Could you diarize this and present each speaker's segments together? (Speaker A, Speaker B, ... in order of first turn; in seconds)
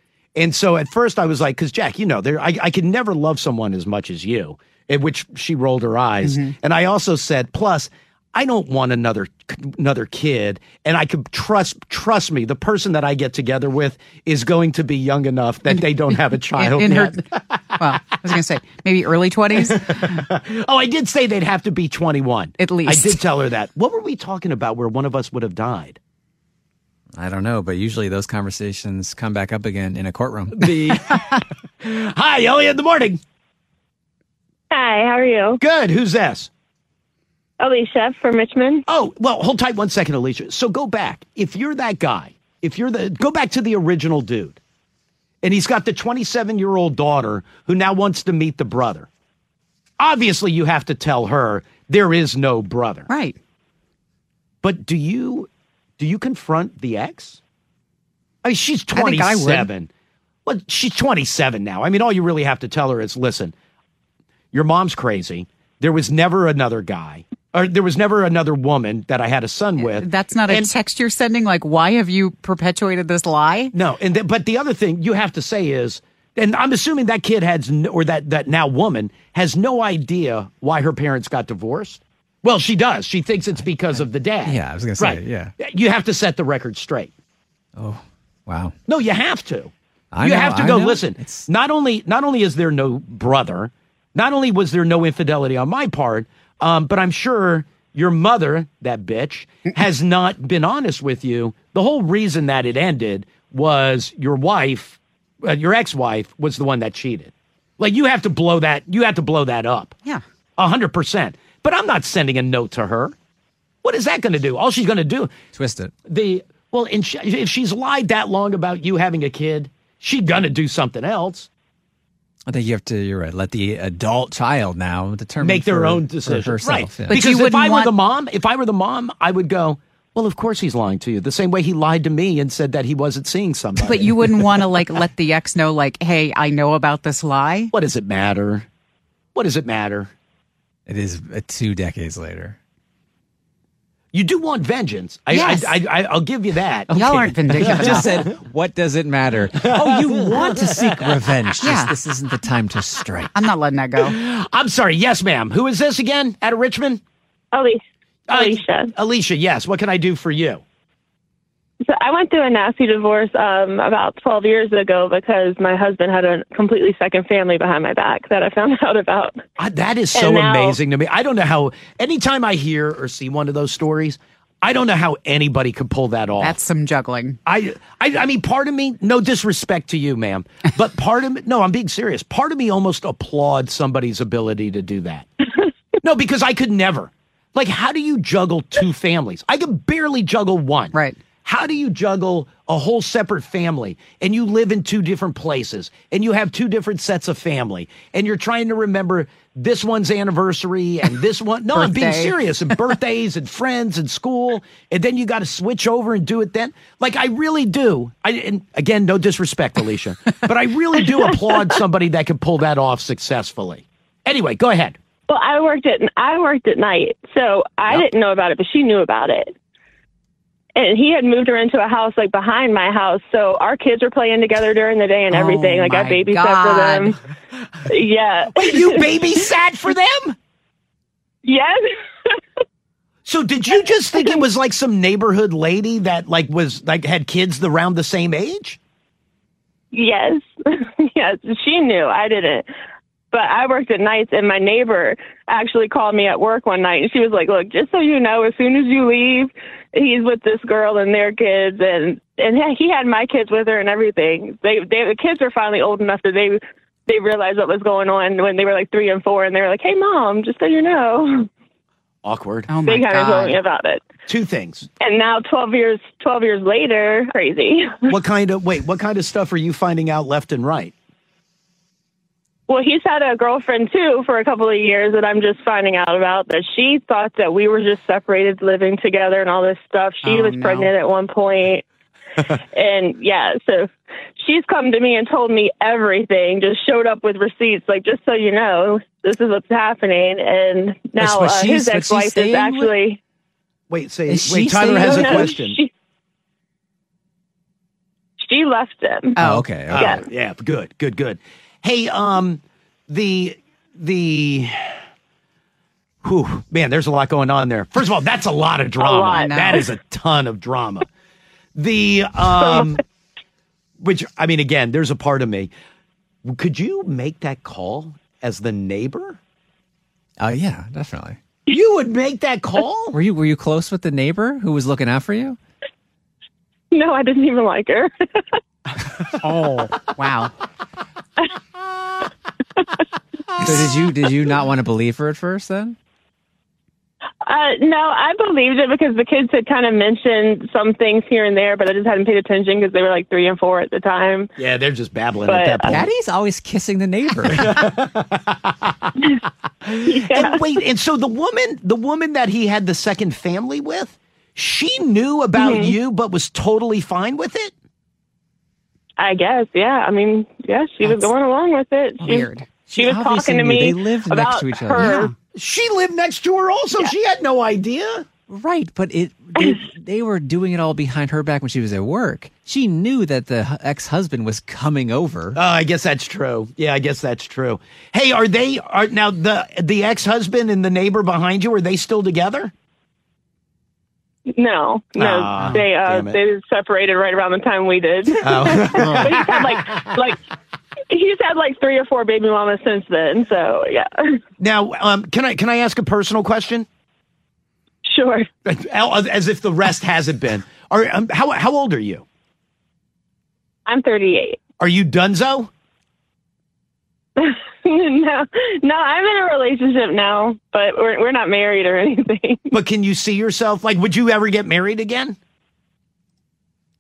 Speaker A: 0.3-17.9, 19.6-26.0, 30.6-33.2, 35.6-36.5, 38.9-44.6, 45.4-49.1, 50.0-53.1, 54.6-57.4, 58.4-59.9, 60.5-63.5, 64.5-70.7, 73.7-87.1, 88.9-110.0, 110.6-113.2, 113.8-115.4, 116.1-121.5, 125.4-134.8, 137.7-138.7, 139.3-140.1, 144.1-148.3, 149.6-151.5, 154.0-157.0, 158.3-160.6, 169.6-176.6, 177.5-185.3, 186.0-190.9, 191.4-215.0, 228.5-230.4, 233.3-238.8, 262.2-262.7, 264.3-264.9, 268.1-270.9, 293.9-295.8, 299.9-304.9, 306.2-311.1, 311.8-313.0, 314.0-315.7, 316.4-319.4, 321.7-323.2, 344.6-346.1, 347.5-349.1, 349.9-357.7, 365.5-368.3, 375.6-382.7, 385.2-386.4, 388.3-390.1, 394.6-396.9, 398.7-402.2, 404.8-405.7, 412.7-415.4
Speaker B: 6.2-6.5, 16.5-17.2, 17.8-20.2, 22.6-23.2, 53.1-53.4, 59.0-59.7, 69.8-73.7, 127.1-127.9, 133.8-137.7, 145.3-145.8, 146.9-148.1, 151.6-151.9, 153.3-154.2, 176.4-177.4, 190.9-191.2, 201.7-202.4, 225.3-227.1, 262.7-263.6, 280.2-280.9, 299.4-299.7, 309.4-309.8, 329.4-330.5, 362.2-362.7, 365.0-365.3
Speaker C: 27.2-31.0, 84.4-85.5, 87.8-88.8, 90.1-91.5, 115.5-115.9, 122.5-127.2, 140.9-142.6, 146.9-153.3, 291.2-292.9, 294.3-295.6, 299.4-300.1, 320.4-321.4, 323.1-325.6, 333.6-336.0, 345.9-347.9, 362.7-365.2, 368.5-375.6
Speaker D: 34.7-35.6, 37.6-38.8, 157.5-158.9, 161.8-169.4, 170.1-170.8, 215.3-219.6, 220.8-227.2, 227.9-229.2, 231.4-232.3, 239.9-242.7, 243.3-261.5, 262.9-264.1, 265.0-268.2, 272.7-281.8, 282.7-293.2, 295.0-295.9, 298.4-299.4, 299.9-300.2, 309.0-309.8, 312.6-312.9, 326.9-328.1, 337.4-344.5, 345.5-346.0, 350.0-350.7, 355.6-356.0, 359.2-365.3, 384.5-390.4, 391.1-394.4, 398.1-398.5, 403.9-404.6, 407.4-412.8